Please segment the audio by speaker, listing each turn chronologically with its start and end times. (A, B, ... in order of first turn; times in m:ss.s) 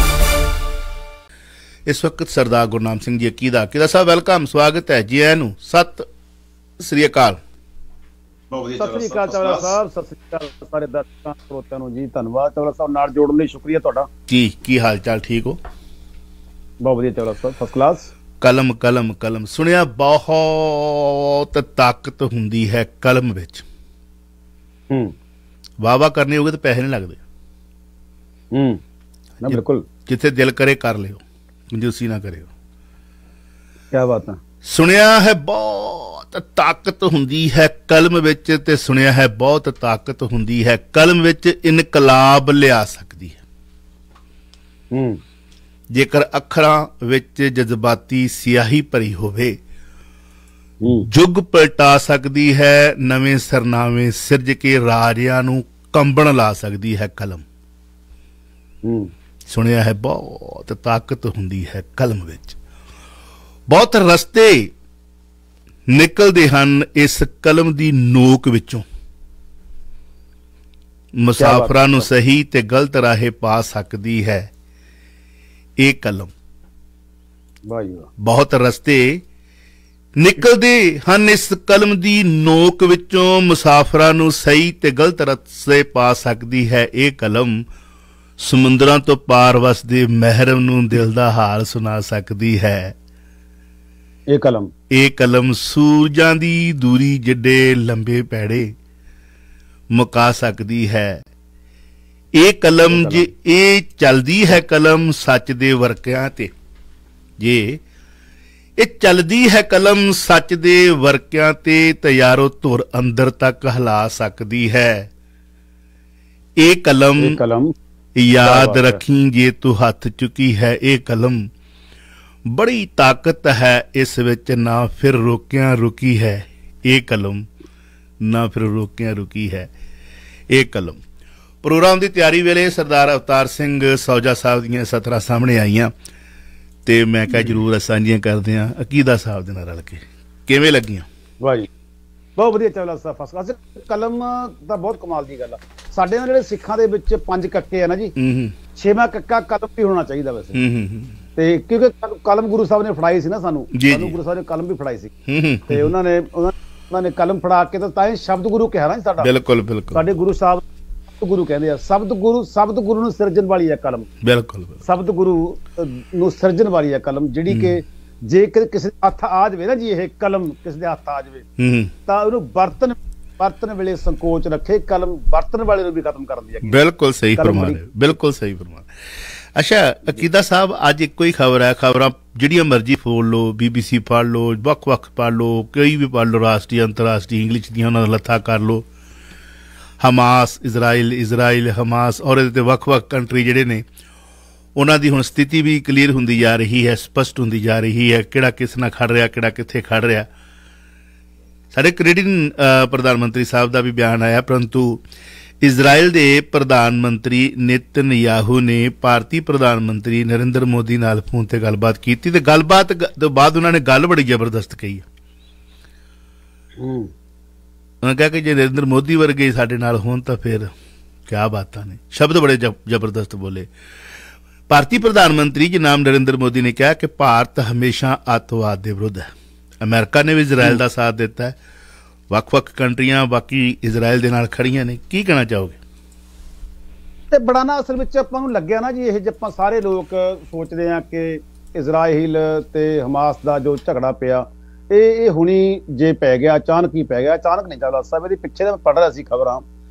0:01.9-0:06.1 A
0:06.8-0:07.4 A
0:08.8-0:14.1 B
0:14.3-0:15.6 A
0:16.8-0:18.1 B
0:18.4-0:23.6 A
0:24.9-0:25.2 B
0:25.8-0:27.2 A
0:28.5-0:28.8 B
0:29.4-0:29.8 B
0:29.5-0:32.5 A
0:33.9-0:34.4 B
0:34.6-0:43.4 A
0:44.9-0:45.2 B
0:45.9-0:49.6 A
0:50.8-0:51.1 B
0:51.1-0:57.4 A
0:58.8-0:59.1 B
0:59.5-1:02.6 A
1:03.7-1:04.7 A
1:05.9-1:08.8 A
1:11.2-1:14.5 A
1:11.4-1:12.1 B
1:15.8-1:16.3 A
1:17.7-1:18.1 B
1:18.2-1:19.2 A
1:20.2-1:27.6 A
1:28.4-1:33.0 A
1:34.3-1:34.7 B
1:34.9-1:38.8 A
1:39.9-1:41.2 A
1:42.3-1:46.5 A
1:42.9-1:43.3 B
1:47.4-1:47.8 A
1:48.8-1:55.1 A
1:56.6-1:57.4 A
1:57.2-1:57.7 B
1:58.2-2:01.5 A
1:58.4-1:59.0 B
2:02.5-2:07.5 A
2:08.2-2:09.7 A
2:10.5-2:11.0 A
2:11.6-2:15.9 A
2:16.8-2:21.1 A
2:21.4-2:21.7 B
2:22.4-2:28.1 B
2:28.2-2:28.6 A
2:28.8-2:30.6 B
2:30.5-2:31.2 A
2:31.4-2:35.1 B
2:33.7-2:34.2 A
2:35.3-2:35.9 A
2:35.7-2:39.3 B
2:39.2-2:40.0 A
2:39.9-2:40.6 B
2:41.2-2:44.1 B
2:44.2-2:44.8 A
2:44.8-2:51.5 B
2:47.5-2:47.8 A
2:51.6-2:51.9 A
2:52.1-2:56.8 B
2:56.6-2:58.9 A
2:57.4-2:57.8 B
2:59.5-3:08.9 A
3:10.0-3:13.8 A
3:14.8-3:20.3 A
3:21.7-3:25.0 A
3:25.6-3:35.0 A
3:36.8-3:37.1 B
3:38.0-3:40.7 A
3:41.3-3:43.7 A
3:44.7-3:51.6 A
3:52.3-3:55.8 A
3:57.3-4:09.6 B